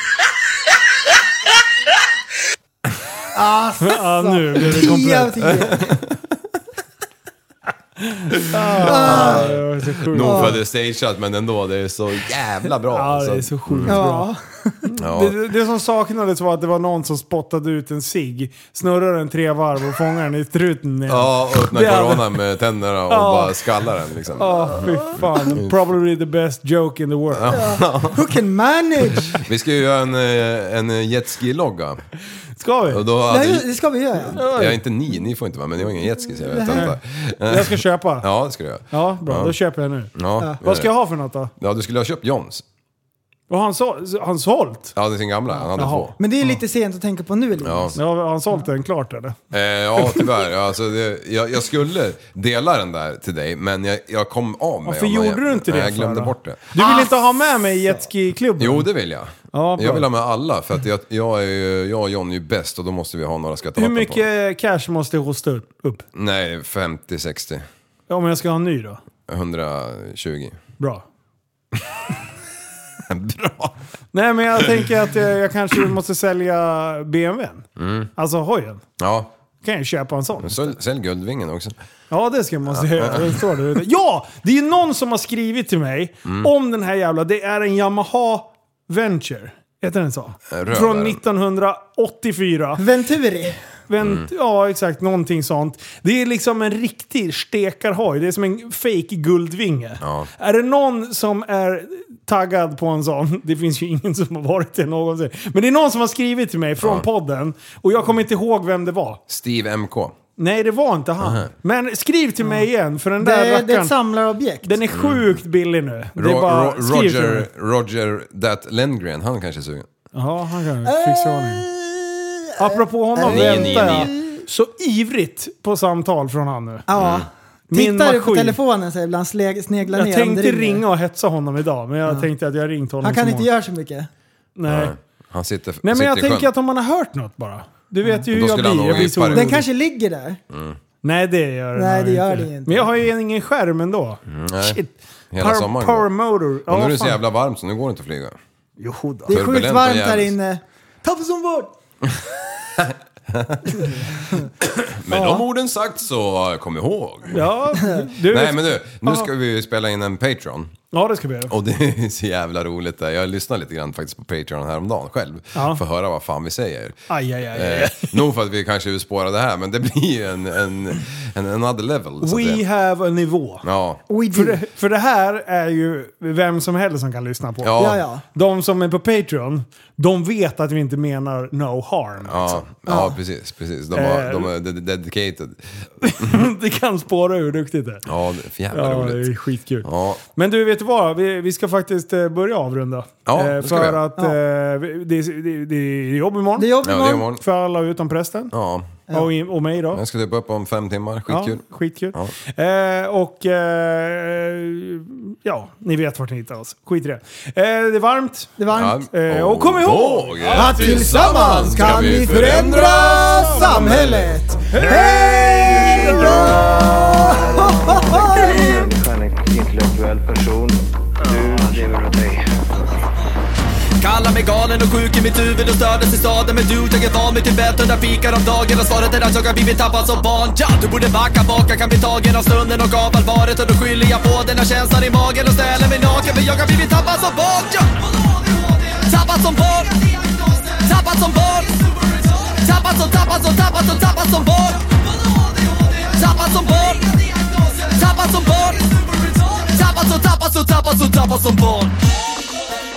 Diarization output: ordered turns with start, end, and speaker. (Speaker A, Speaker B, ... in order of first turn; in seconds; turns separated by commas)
Speaker A: 3.3-5.9, Speaker B: 3.8-5.7, Speaker C: 5.6-6.0, Speaker B: 8.0-10.6, Speaker C: 8.6-14.0, Speaker A: 8.8-9.5, Speaker A: 10.2-10.6, Speaker B: 12.9-14.3, Speaker A: 13.9-14.8, Speaker B: 14.8-22.4, Speaker C: 15.0-15.4, Speaker C: 21.1-25.8, Speaker B: 23.1-23.8, Speaker B: 24.3-27.6, Speaker A: 24.9-25.4, Speaker C: 27.3-28.3, Speaker A: 27.5-29.3, Speaker C: 29.2-32.0, Speaker B: 32.6-33.0, Speaker C: 32.9-33.7, Speaker A: 33.3-34.4, Speaker C: 34.3-39.6, Speaker B: 34.3-34.8, Speaker A: 36.4-36.9, Speaker B: 36.7-38.3, Speaker B: 38.9-41.5, Speaker C: 40.1-40.9, Speaker C: 41.6-42.6, Speaker B: 43.5-45.0, Speaker C: 45.0-46.1, Speaker B: 45.8-46.6, Speaker A: 46.2-48.0, Speaker C: 47.6-48.0, Speaker B: 48.0-49.4, Speaker C: 49.5-56.6, Speaker B: 50.0-50.4, Speaker B: 54.9-58.9, Speaker A: 56.8-57.1, Speaker C: 58.6-64.2, Speaker B: 59.5-60.1, Speaker B: 63.8-66.1, Speaker C: 66.2-67.7, Speaker B: 68.1-69.0, Speaker C: 69.3-70.6, Speaker C: 71.7-72.0, Speaker C: 73.1-73.8, Speaker B: 74.1-77.7, Speaker C: 74.6-74.9, Speaker C: 77.8-78.1, Speaker B: 78.2-78.8, Speaker C: 79.0-79.3, Speaker B: 79.6-80.7, Speaker C: 80.4-81.8, Speaker B: 82.1-92.8, Speaker C: 82.7-83.4, Speaker C: 90.5-91.2, Speaker A: 92.8-93.6, Speaker B: 93.9-109.2, Speaker C: 94.0-94.3, Speaker C: 100.0-100.3, Speaker C: 109.3-110.2, Speaker B: 110.4-113.9, Speaker C: 111.2-111.5, Speaker A: 113.2-114.7, Speaker B: 114.6-117.5, Speaker C: 114.9-115.3, Speaker C: 116.2-119.9, Speaker B: 120.1-121.7, Speaker A: 120.8-124.4, Speaker B: 122.6-126.9, Speaker C: 123.3-124.1, Speaker A: 126.9-130.8, Speaker C: 127.0-127.3, Speaker B: 127.7-128.6, Speaker B: 129.9-133.5, Speaker A: 133.0-134.1, Speaker B: 134.6-134.9, Speaker C: 134.7-136.5, Speaker B: 135.8-139.7, Speaker C: 138.3-139.6, Speaker A: 139.2-140.4, Speaker C: 140.5-140.8, Speaker B: 141.0-147.2, Speaker A: 141.8-142.9, Speaker C: 144.3-144.8, Speaker C: 145.3-146.1, Speaker C: 146.7-148.4, Speaker B: 148.8-149.3, Speaker A: 149.3-151.7, Speaker C: 149.3-150.3, Speaker C: 152.8-153.9, Speaker C: 154.7-157.5, Speaker A: 155.1-155.4, Speaker B: 157.3-159.3, Speaker C: 158.2-160.8, Speaker B: 160.9-161.5, Speaker C: 161.5-167.0, Speaker B: 165.6-165.8, Speaker B: 167.1-168.2, Speaker C: 167.5-172.6, Speaker B: 172.2-173.7, Speaker C: 173.6-174.0, Speaker A: 174.1-174.6, Speaker B: 174.3-182.6, Speaker C: 177.6-178.0, Speaker A: 177.8-178.2, Speaker C: 182.2-186.4, Speaker A: 182.9-183.2, Speaker B: 183.9-184.5, Speaker B: 186.0-188.0, Speaker C: 188.1-189.3, Speaker B: 188.7-198.5, Speaker C: 189.8-190.2, Speaker C: 193.3-194.0, Speaker A: 196.6-197.3, Speaker C: 196.8-197.4, Speaker C: 198.5-198.9, Speaker B: 199.1-200.0, Speaker C: 199.9-201.6, Speaker B: 201.3-217.4, Speaker A: 208.6-209.0, Speaker C: 208.7-214.3, Speaker A: 210.5-218.9, Speaker D: 215.4-222.5, Speaker B: 218.0-218.5, Speaker E: 224.0-251.9